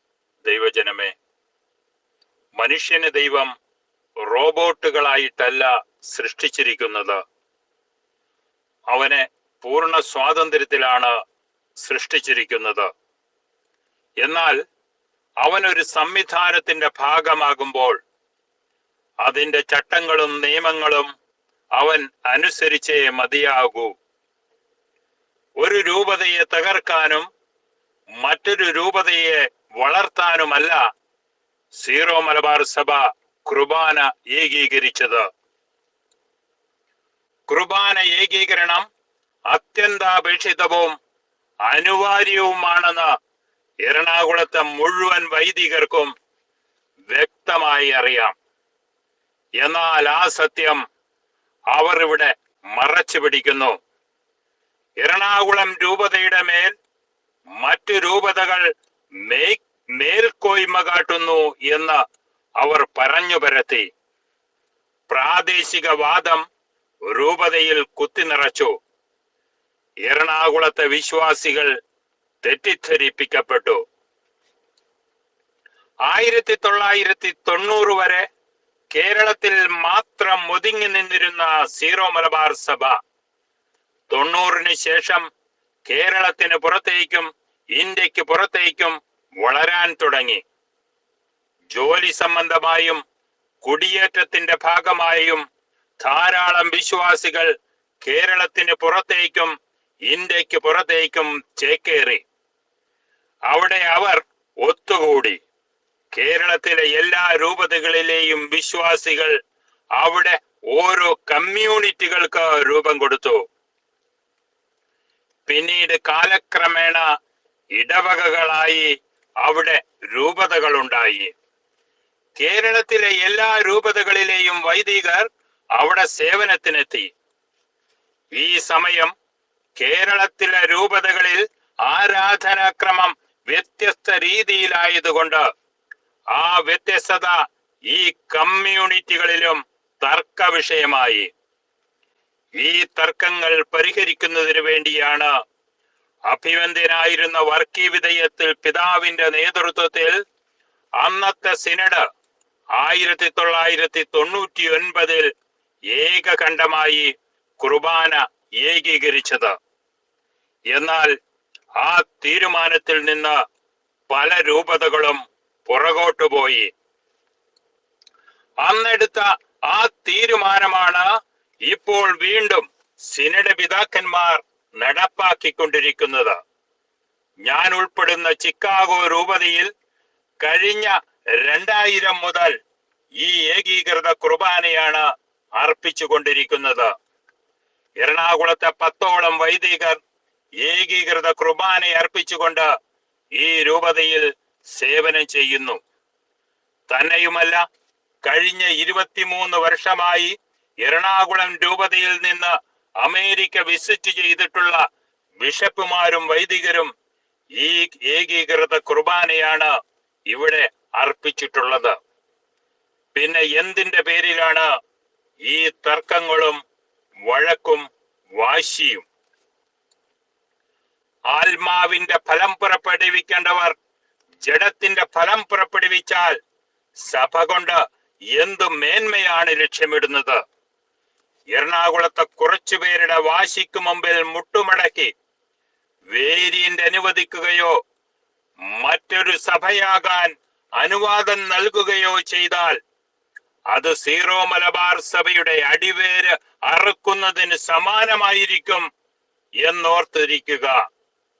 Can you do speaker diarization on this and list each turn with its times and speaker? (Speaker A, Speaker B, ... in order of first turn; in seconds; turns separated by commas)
Speaker A: 0.4-1.1, Speaker A: 2.6-3.5, Speaker A: 4.2-7.2, Speaker A: 8.9-11.1, Speaker A: 11.8-12.9, Speaker A: 14.2-14.6, Speaker A: 15.4-18.0, Speaker A: 19.2-21.1, Speaker A: 21.8-23.9, Speaker A: 25.6-27.3, Speaker A: 28.2-30.8, Speaker A: 31.8-35.2, Speaker A: 37.5-38.9, Speaker A: 39.5-40.9, Speaker A: 41.7-43.1, Speaker A: 43.9-46.1, Speaker A: 47.1-48.3, Speaker A: 49.6-50.8, Speaker A: 51.7-53.8, Speaker A: 55.0-56.7, Speaker A: 57.6-58.7, Speaker A: 59.3-62.0, Speaker A: 62.6-63.9, Speaker A: 65.1-66.4, Speaker A: 67.1-68.7, Speaker A: 70.1-71.7, Speaker A: 72.4-73.8, Speaker A: 76.1-78.2, Speaker A: 78.9-83.0, Speaker A: 84.1-85.2, Speaker A: 85.9-90.4, Speaker A: 91.7-93.0, Speaker A: 93.6-95.4, Speaker A: 96.0-99.5, Speaker A: 100.1-102.2, Speaker A: 103.5-105.4, Speaker A: 106.1-109.4, Speaker A: 110.0-113.4, Speaker A: 115.5-117.0, Speaker A: 117.8-118.9, Speaker A: 119.4-121.3, Speaker A: 122.4-127.1, Speaker A: 128.3-129.1, Speaker A: 129.8-135.4, Speaker A: 136.3-141.3, Speaker A: 142.6-145.3, Speaker A: 146.3-150.2, Speaker A: 151.0-152.0, Speaker A: 152.8-155.3, Speaker A: 155.9-159.5, Speaker A: 160.7-161.1, Speaker A: 161.8-163.4, Speaker A: 164.1-166.7, Speaker A: 168.6-171.1, Speaker A: 171.7-176.4, Speaker A: 177.4-179.7, Speaker A: 180.4-182.6, Speaker A: 183.2-185.1, Speaker A: 185.6-186.9, Speaker A: 188.0-190.0, Speaker A: 190.6-192.7, Speaker A: 193.4-195.8, Speaker A: 196.9-197.6, Speaker A: 198.2-204.8, Speaker A: 205.4-206.9, Speaker A: 207.6-209.7, Speaker A: 210.3-211.9, Speaker A: 213.2-214.7, Speaker A: 215.4-216.6, Speaker A: 217.3-217.8, Speaker A: 218.4-219.1, Speaker A: 221.3-223.8, Speaker A: 224.4-226.4, Speaker A: 227.0-227.8, Speaker A: 228.3-230.4, Speaker A: 231.5-235.1, Speaker A: 236.1-237.8, Speaker A: 238.8-242.8, Speaker A: 243.7-248.8, Speaker A: 249.6-250.8